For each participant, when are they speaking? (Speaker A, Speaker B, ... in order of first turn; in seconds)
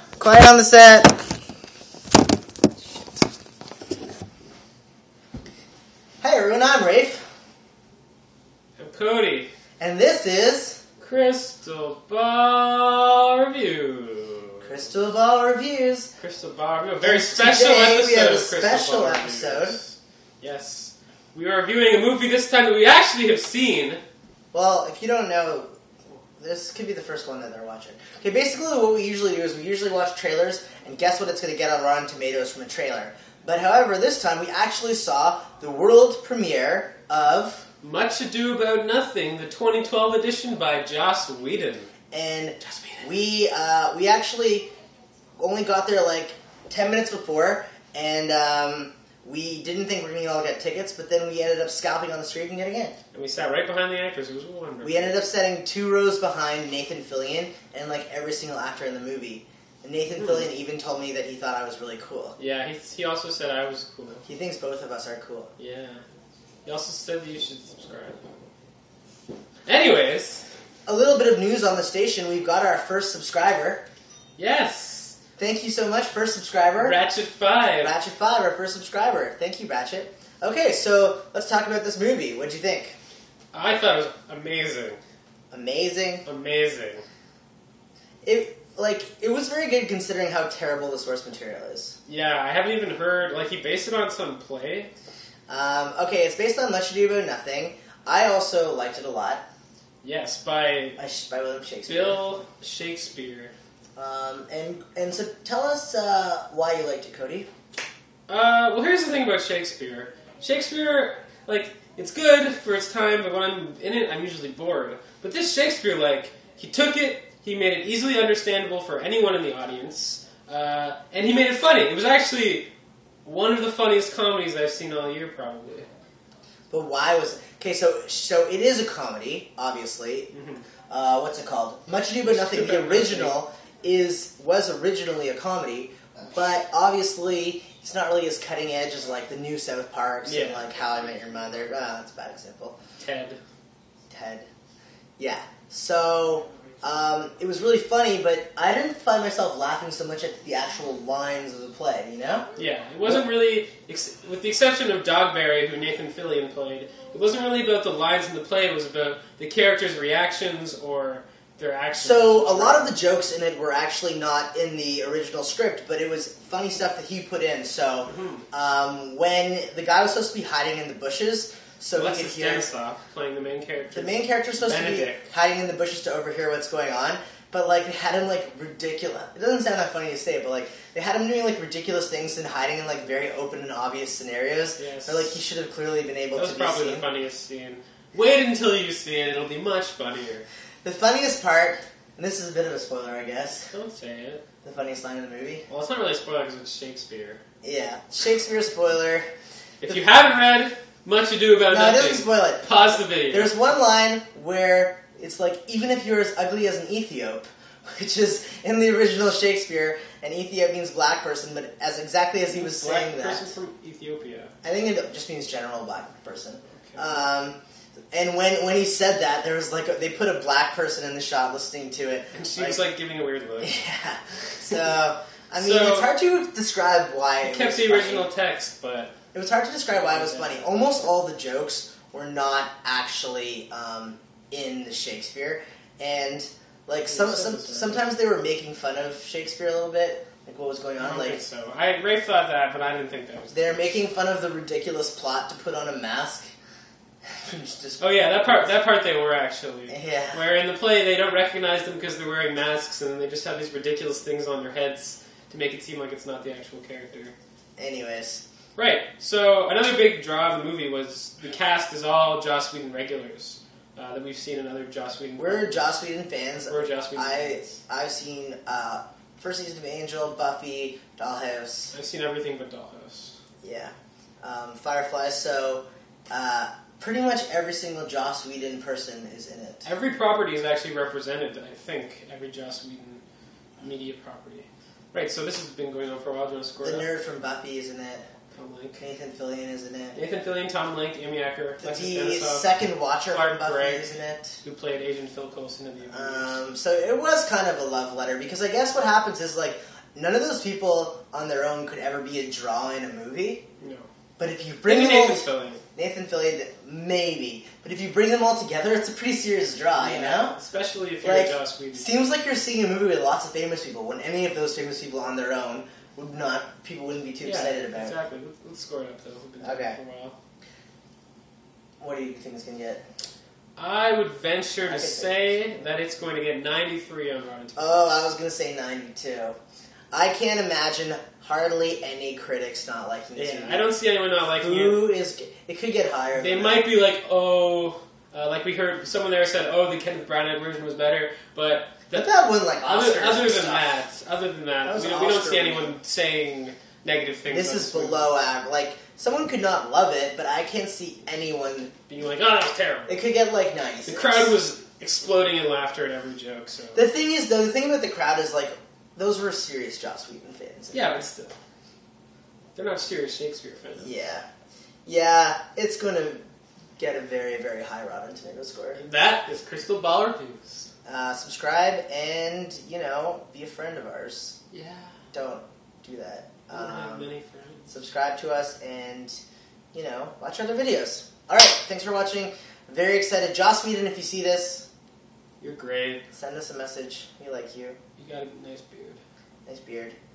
Speaker A: 0.2-1.2, 6.2-7.3, 9.8-10.8, 14.6-16.1, 17.0-19.8, 24.5-25.7, 26.4-37.7, 42.1-44.7, 45.4-53.0, 54.8-62.4, 64.3-65.5, 70.9-73.8, 75.4-77.0, 77.8-83.0, 85.5-86.2, 88.2-92.0, 95.5-99.5, 101.0-102.3, 104.0-107.5, 126.7-130.3, 130.9-142.8, 144.1-144.5, 145.2-152.5, 162.0-172.7, 173.9-187.1, 190.8-193.7, 194.6-195.7, 197.6-199.3, 201.7-213.6, 214.6-217.6, 218.1-222.8, 223.6-228.3, 229.3-241.4, 243.5-246.5, 247.4-248.7, 249.9-250.4, 257.8-258.4, 265.4-271.9, 273.6-279.9, 286.8-288.3, 289.0-290.2, 291.8-294.6, 296.1-303.6, 304.4-310.6, 311.2-318.1, 319.6-320.0, 322.0-323.0, 324.9-325.6, 327.8-329.6, 330.1-333.8, 334.6-336.9, 342.1-344.0, 344.9-345.9, 347.5-351.9, 353.1-354.6, 356.9-361.2, 364.0-364.5, 365.1-366.4, 367.0-369.0, 371.1-374.6, 375.3-377.3, 377.9-379.4, 379.9-384.9, 386.3-388.0, 389.7-390.1
Speaker B: 8.8-9.5, 11.0-14.7, 16.2-24.0, 37.8-41.9, 42.6-43.1, 53.1-55.2, 60.1-60.5, 62.4-64.2, 65.6-66.0, 66.7-68.3, 69.7-70.5, 74.4-75.2, 76.8-78.0, 83.5-85.0, 86.2-87.0, 92.1-94.9, 100.0-101.0, 101.9-103.5, 108.3-122.7, 123.2-125.9, 130.3-130.7, 132.2-133.4, 140.3-140.7, 143.0-143.4, 152.6-162.9, 168.1-168.4, 171.9-175.2, 184.8-185.4, 186.4-190.5, 193.7-194.4, 195.7-197.4, 199.8-203.5, 212.5-214.5, 216.7-217.2, 222.3-223.8, 225.6-226.2, 227.4-229.1, 229.9-230.7, 237.1-238.1, 241.0-244.0, 248.0-257.4, 258.8-266.0, 266.6-267.8, 271.9-273.4, 279.9-283.2, 283.8-287.1, 288.5-289.0, 290.1-292.7, 293.3-296.6, 303.8-304.1, 304.8-305.8, 309.9-312.2, 317.4-320.4, 323.8-328.0, 333.4-335.1, 336.4-348.3, 352.1-353.2, 354.1-357.1, 360.9-361.6, 362.8-364.1, 368.9-370.9, 374.7-375.2, 376.7-377.9, 385.6-386.3, 388.2-389.2